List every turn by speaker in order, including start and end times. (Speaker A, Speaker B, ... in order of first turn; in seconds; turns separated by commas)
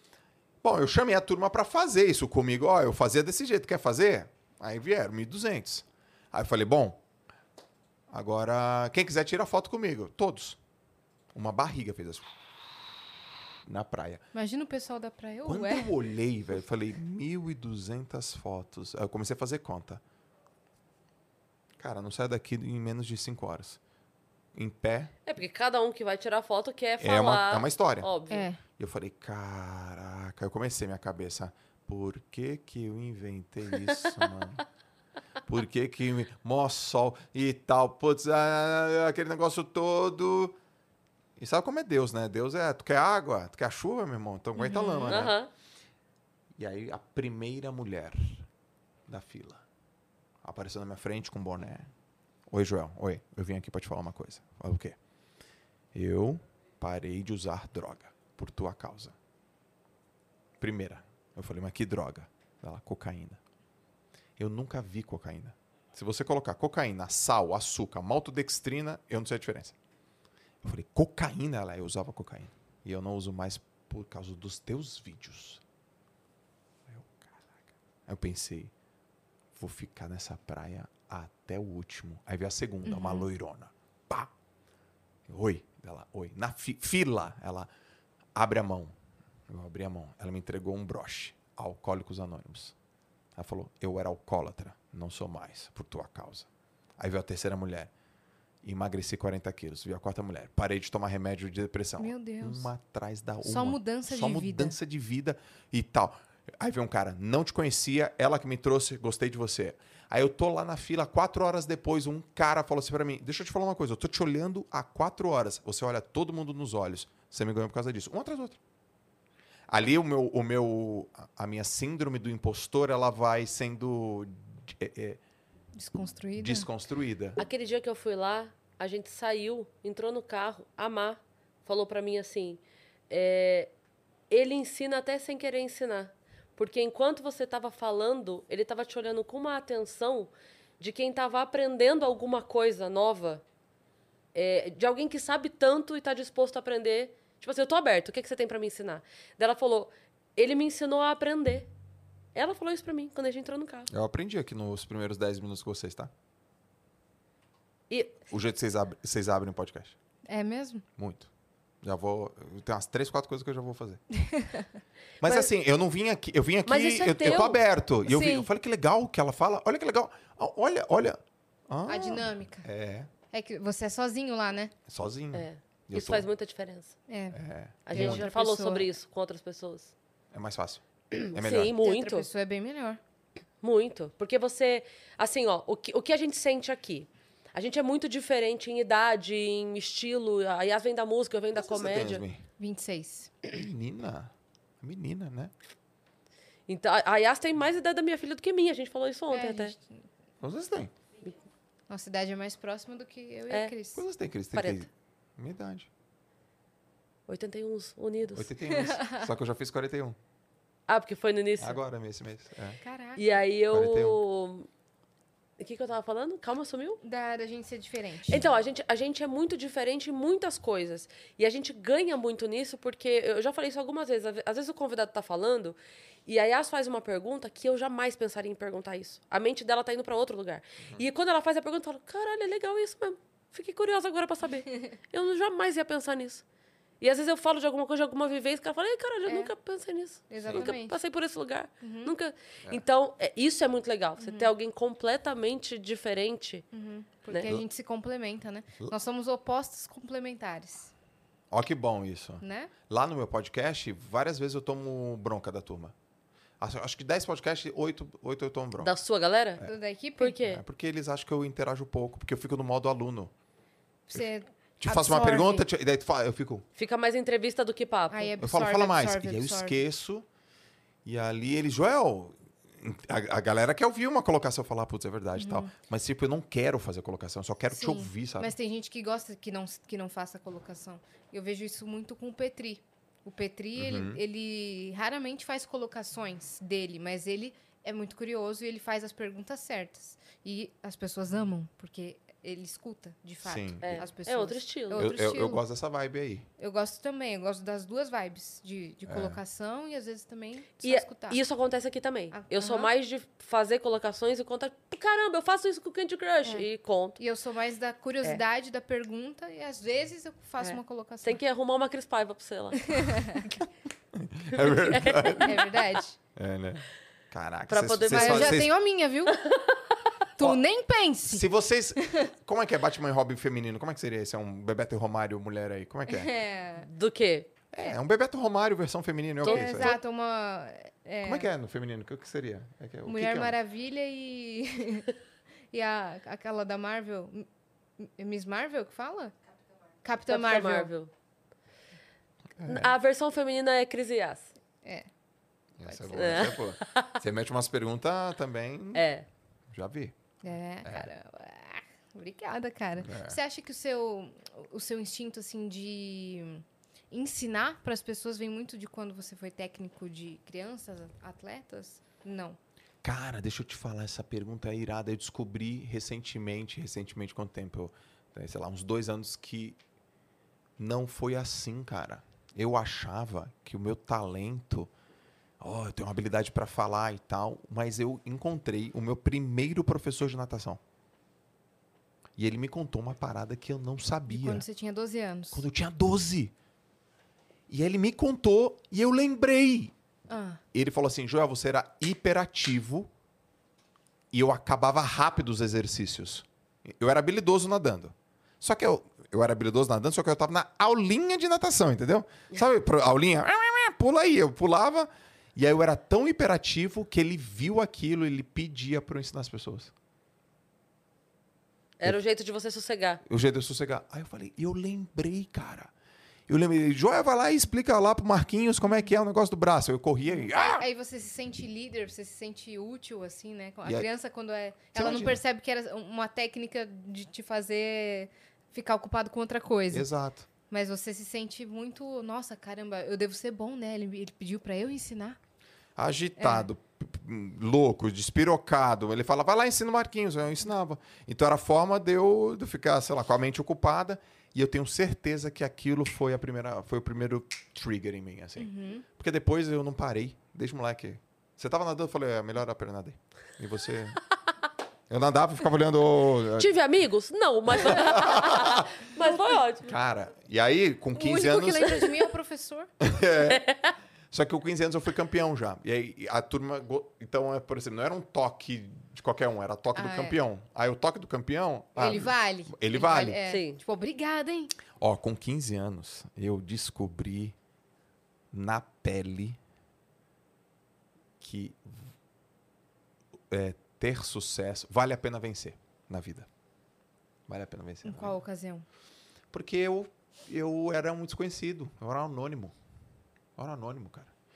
Speaker A: 0.6-7.0, Speaker A: 8.1-10.6, Speaker A: 11.3-12.3, Speaker A: 13.6-14.2, Speaker B: 14.3-15.9, Speaker A: 15.4-20.0, Speaker A: 21.8-23.8, Speaker A: 24.5-25.1, Speaker C: 25.2-28.5, Speaker A: 27.0-28.1, Speaker B: 28.3-28.6, Speaker A: 28.8-34.6, Speaker A: 35.5-40.6, Speaker A: 41.4-45.4, Speaker B: 44.6-45.2, Speaker C: 45.1-45.5, Speaker A: 46.6-48.5, Speaker A: 49.1-49.6, Speaker A: 50.4-51.9, Speaker A: 52.5-55.0, Speaker A: 55.9-59.1, Speaker A: 60.6-63.4, Speaker A: 64.4-69.7, Speaker A: 70.6-75.6, Speaker A: 76.9-78.7, Speaker A: 79.5-84.3, Speaker B: 82.8-83.3, Speaker A: 85.3-87.7, Speaker A: 88.3-88.9, Speaker A: 89.5-92.7, Speaker A: 93.3-96.5, Speaker A: 97.0-97.9, Speaker A: 98.6-118.6, Speaker B: 102.0-102.7, Speaker B: 103.4-104.7, Speaker A: 119.7-125.2, Speaker B: 125.8-126.7, Speaker A: 126.4-127.4, Speaker C: 127.4-133.7, Speaker C: 134.3-143.4, Speaker C: 144.3-151.7, Speaker C: 152.3-153.9, Speaker A: 153.9-156.1, Speaker C: 157.9-158.2, Speaker A: 158.3-159.9, Speaker B: 160.3-160.8, Speaker A: 161.0-161.3, Speaker A: 161.8-164.0, Speaker B: 164.2-164.7, Speaker A: 165.2-173.1, Speaker C: 166.7-167.6, Speaker B: 168.1-168.5, Speaker B: 171.9-172.7, Speaker B: 173.3-174.7, Speaker A: 174.9-176.3, Speaker C: 175.3-176.9, Speaker B: 177.1-177.4, Speaker A: 177.3-178.2, Speaker C: 177.8-179.9, Speaker B: 177.9-178.9, Speaker A: 180.3-181.8, Speaker C: 181.1-182.3, Speaker B: 181.8-183.0, Speaker C: 183.6-192.2, Speaker A: 191.5-192.4, Speaker B: 192.6-193.3, Speaker A: 193.4-195.5, Speaker C: 196.7-199.7, Speaker B: 199.3-199.9, Speaker A: 200.4-200.9, Speaker B: 201.9-204.0, Speaker A: 203.9-205.9, Speaker C: 204.5-204.9, Speaker C: 207.3-208.5, Speaker A: 208.3-210.2, Speaker B: 208.7-209.2, Speaker C: 210.9-211.8, Speaker A: 211.6-212.8, Speaker B: 212.8-213.2, Speaker C: 213.2-214.7, Speaker A: 213.7-214.2, Speaker C: 215.6-217.0, Speaker B: 217.0-218.4, Speaker C: 218.3-236.4, Speaker C: 237.0-246.7, Speaker B: 239.2-239.5, Speaker B: 240.3-241.0, Speaker A: 240.4-240.7, Speaker B: 241.8-242.1, Speaker B: 244.2-244.5, Speaker B: 246.7-250.9, Speaker A: 251.5-255.9, Speaker B: 252.4-252.7, Speaker A: 256.6-258.9, Speaker C: 258.8-259.6, Speaker B: 259.6-260.4, Speaker C: 260.2-260.6, Speaker A: 260.4-263.3, Speaker B: 264.1-265.6, Speaker A: 264.8-266.6, Speaker C: 266.8-268.3, Speaker B: 268.1-269.8, Speaker A: 268.4-270.2, Speaker A: 271.0-278.5, Speaker B: 275.4-275.7, Speaker B: 277.7-295.6, Speaker A: 283.8-284.2, Speaker A: 293.4-294.0, Speaker C: 293.8-295.1, Speaker A: 294.9-296.5, Speaker B: 296.6-301.4, Speaker A: 299.1-299.4, Speaker C: 300.8-307.2, Speaker B: 302.3-302.9, Speaker B: 307.2-311.4, Speaker C: 310.6-313.6, Speaker B: 312.9-313.4, Speaker A: 314.1-315.7, Speaker C: 314.6-315.6, Speaker B: 315.4-316.2, Speaker A: 316.3-318.7, Speaker C: 317.7-318.7, Speaker B: 318.1-319.4, Speaker C: 319.3-319.8, Speaker B: 320.4-321.4, Speaker A: 321.2-326.3, Speaker B: 322.0-322.3, Speaker B: 326.1-326.9, Speaker C: 326.8-327.5, Speaker A: 327.7-330.0, Speaker C: 329.4-330.0, Speaker B: 329.4-331.5, Speaker A: 331.2-333.6, Speaker B: 333.1-335.1, Speaker B: 335.7-337.5, Speaker B: 338.0-339.3, Speaker B: 340.0-340.9, Speaker C: 340.3-341.1, Speaker A: 342.6-342.9, Speaker C: 342.6-344.5, Speaker A: 345.8-349.1, Speaker B: 345.8-346.5, Speaker C: 346.1-347.1, Speaker C: 348.9-349.3, Speaker A: 349.7-350.1, Speaker B: 350.4-362.6, Speaker A: 353.0-353.4, Speaker A: 363.0-369.8, Speaker A: 370.8-374.9, Speaker A: 375.6-380.8, Speaker A: 382.4-384.6, Speaker B: 384.3-385.6, Speaker A: 385.5-386.5, Speaker A: 387.7-389.9, Speaker B: 390.3-390.6, Speaker A: 390.7-393.1, Speaker A: 394.3-409.9, Speaker C: 412.0-413.2, Speaker A: 413.2-415.9, Speaker A: 416.5-420.8, Speaker B: 420.4-430.1, Speaker A: 423.8-424.1, Speaker A: 424.9-425.4, Speaker A: 429.9-430.5, Speaker B: 430.7-435.4, Speaker A: 435.9-454.2, Speaker B: 436.4-436.7, Speaker B: 448.6-449.0, Speaker A: 455.1-456.7, Speaker C: 456.6-459.9, Speaker A: 457.7-458.9, Speaker A: 459.8-462.1, Speaker B: 461.1-462.9, Speaker A: 463.0-463.6, Speaker C: 463.5-463.9, Speaker A: 464.3-473.4, Speaker B: 469.9-470.4, Speaker B: 472.0-474.7, Speaker C: 473.5-473.8, Speaker A: 475.0-477.5, Speaker A: 478.5-479.6, Speaker A: 481.4-482.1, Speaker A: 483.5-486.5, Speaker A: 487.5-488.4, Speaker B: 488.0-488.9, Speaker A: 489.5-492.7, Speaker A: 493.6-494.3